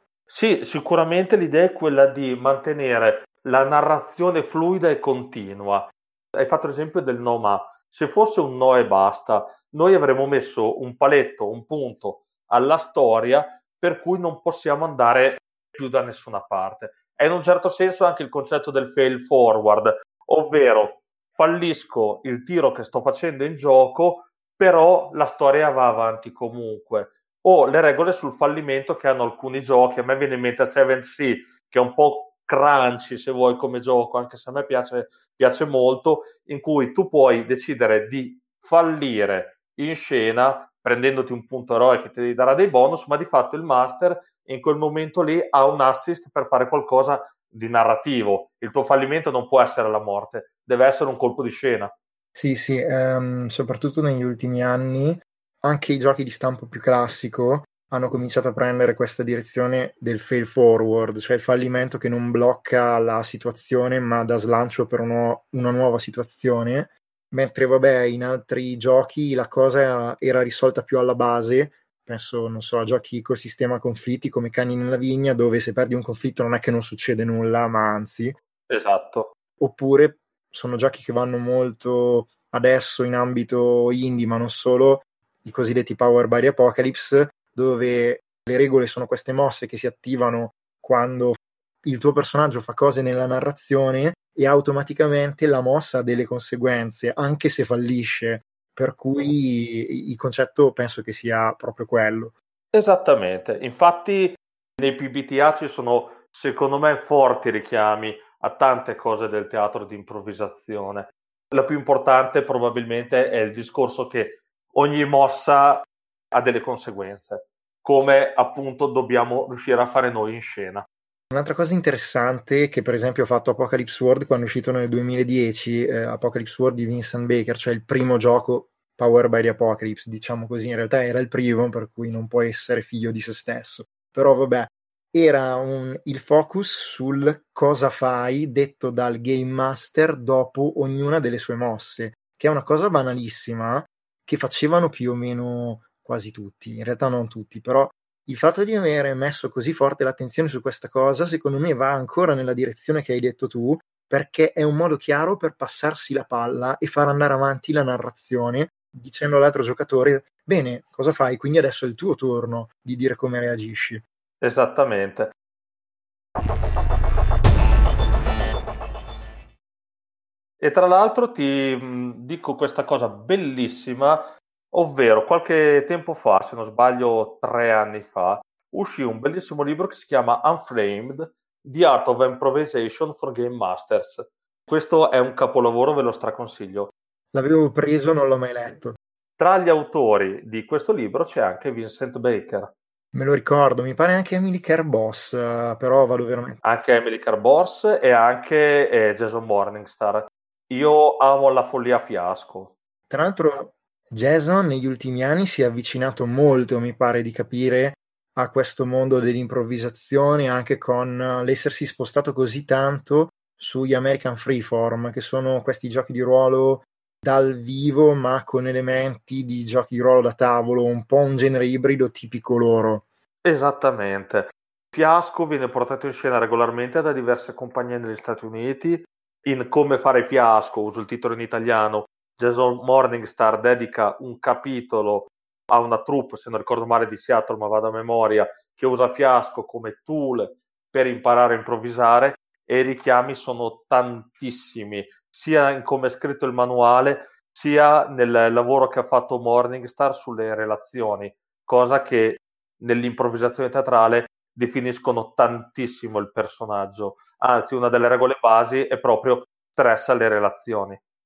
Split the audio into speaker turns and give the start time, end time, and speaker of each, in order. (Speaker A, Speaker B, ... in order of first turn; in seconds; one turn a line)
Speaker A: 0.3-51.9
Speaker B: 52.3-78.3
Speaker A: 78.7-79.3
Speaker B: 79.6-102.3
Speaker A: 102.7-120.8
Speaker B: 121.3-164.0
Speaker A: 164.4-165.3
Speaker A: 170.6-186.9
Speaker B: 187.3-189.0
Speaker A: 189.4-192.7
Speaker B: 193.1-196.6
Speaker A: 196.6-202.7
Speaker B: 203.1-223.1
Speaker A: 223.4-261.0